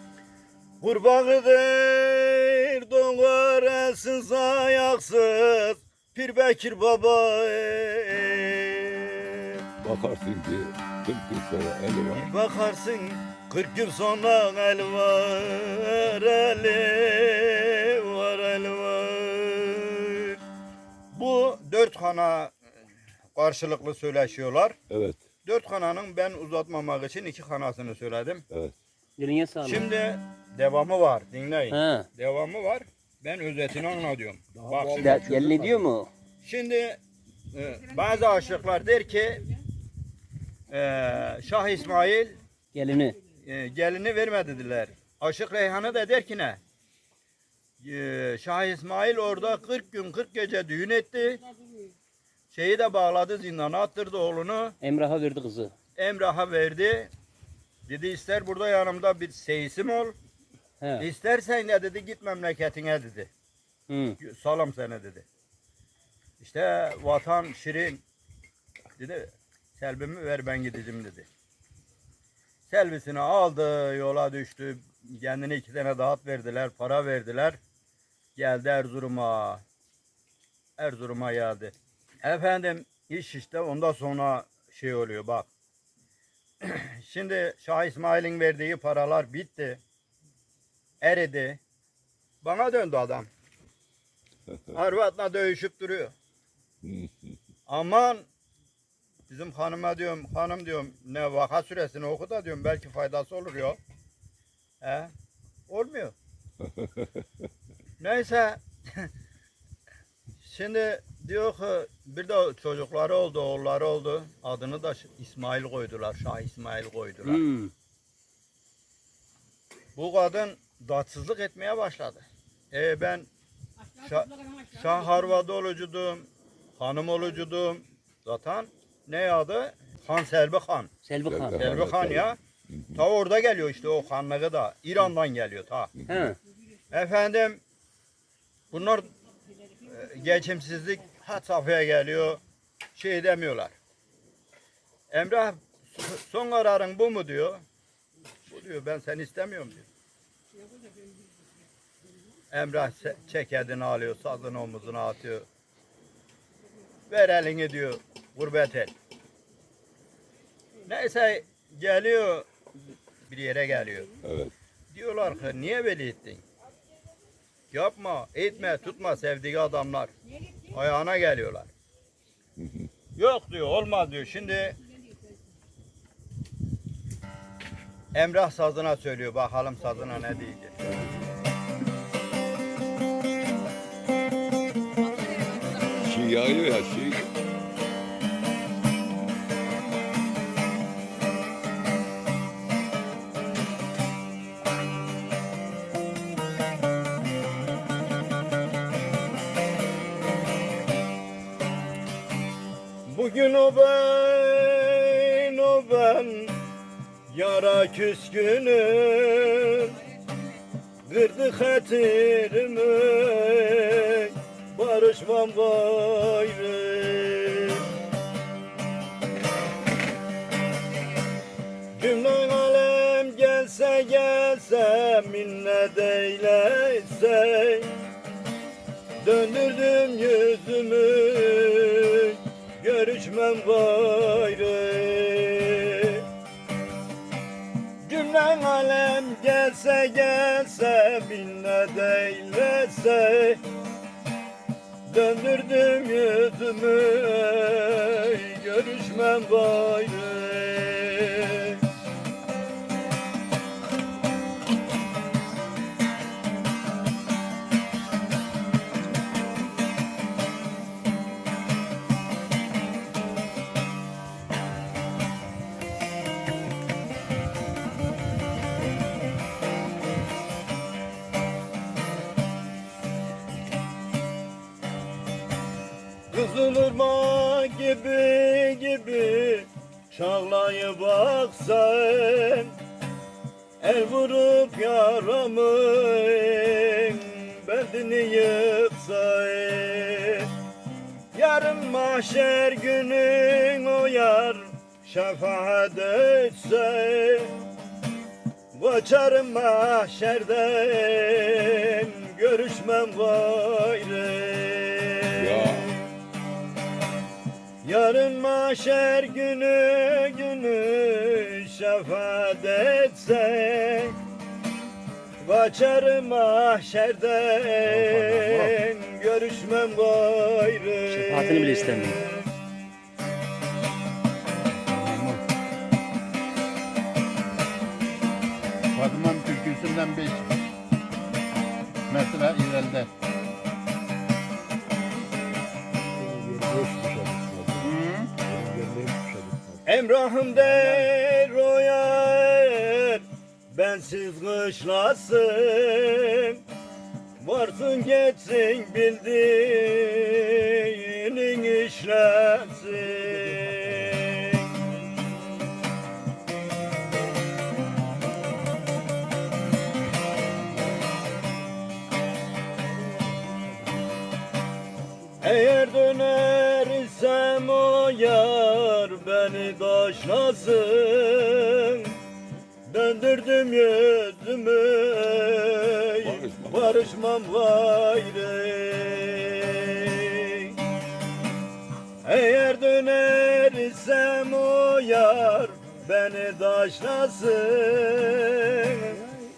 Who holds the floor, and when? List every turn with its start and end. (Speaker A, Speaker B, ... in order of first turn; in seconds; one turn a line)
Speaker A: 0.8-9.6
Speaker B: 9.8-12.3
Speaker A: 12.2-20.4
Speaker A: 21.1-22.5
Speaker A: 23.4-24.8
Speaker B: 24.9-25.2
Speaker A: 25.4-28.4
Speaker C: 29.2-29.9
Speaker A: 29.6-35.3
Speaker C: 31.7-32.1
Speaker D: 34.6-35.7
Speaker C: 35.0-36.1
Speaker A: 36.4-37.0
Speaker A: 37.5-39.5
Speaker A: 40.7-42.4
Speaker C: 42.7-43.2
Speaker A: 43.4-46.6
Speaker A: 47.8-51.4
Speaker A: 52.5-54.8
Speaker C: 54.8-55.7
Speaker A: 56.0-57.1
Speaker A: 57.9-60.1
Speaker C: 60.8-61.1
Speaker A: 61.0-63.3
Speaker C: 63.9-64.2
Speaker A: 64.2-65.2
Speaker A: 66.4-68.0
Speaker A: 69.0-71.3
Speaker A: 72.7-77.6
Speaker A: 78.4-79.6
Speaker A: 80.8-85.5
Speaker A: 86.6-89.8
Speaker A: 91.0-91.6
Speaker A: 92.4-93.3
Speaker A: 94.7-96.1
Speaker B: 96.8-97.1
Speaker A: 97.7-98.2
Speaker A: 99.3-103.8
Speaker A: 104.8-105.1
Speaker A: 105.7-106.1
Speaker B: 106.8-107.1
Speaker A: 108.0-109.1
Speaker A: 110.4-117.5
Speaker C: 117.2-117.7
Speaker A: 120.0-123.3
Speaker A: 124.0-126.3
Speaker A: 126.8-130.9
Speaker C: 131.0-131.6
Speaker B: 131.3-133.0
Speaker A: 131.6-132.4
Speaker A: 133.0-135.9
Speaker C: 136.1-136.4
Speaker A: 136.9-137.6
Speaker A: 138.7-139.1
Speaker A: 139.8-142.4
Speaker A: 142.9-143.7
Speaker A: 145.1-147.6
Speaker A: 148.5-149.9
Speaker A: 152.5-155.5
Speaker A: 157.1-158.9
Speaker A: 160.9-162.5
Speaker A: 163.3-164.1
Speaker B: 164.2-164.5
Speaker A: 164.9-166.4
Speaker A: 167.7-171.7
Speaker B: 172.6-172.9
Speaker A: 173.2-174.8
Speaker A: 178.1-180.7
Speaker B: 180.8-181.3
Speaker B: 185.8-187.3
Speaker A: 203.1-206.6
Speaker A: 207.3-210.0
Speaker A: 211.1-217.8
Speaker A: 222.0-227.9
Speaker A: 229.2-236.2
Speaker A: 238.1-243.6
Speaker A: 245.1-251.8
Speaker A: 276.3-282.7
Speaker A: 283.8-290.5
Speaker A: 291.3-297.5
Speaker A: 298.8-306.0
Speaker B: 305.4-305.9
Speaker A: 307.8-314.2
Speaker A: 315.4-322.5
Speaker D: 318.2-318.6
Speaker C: 321.1-322.2
Speaker D: 324.9-325.4
Speaker D: 329.0-330.5
Speaker D: 332.1-333.1
Speaker D: 336.1-339.8
Speaker A: 339.9-346.6
Speaker A: 347.4-354.7
Speaker A: 365.4-372.1
Speaker A: 372.9-380.8
Speaker B: 376.2-377.1
Speaker A: 382.2-389.2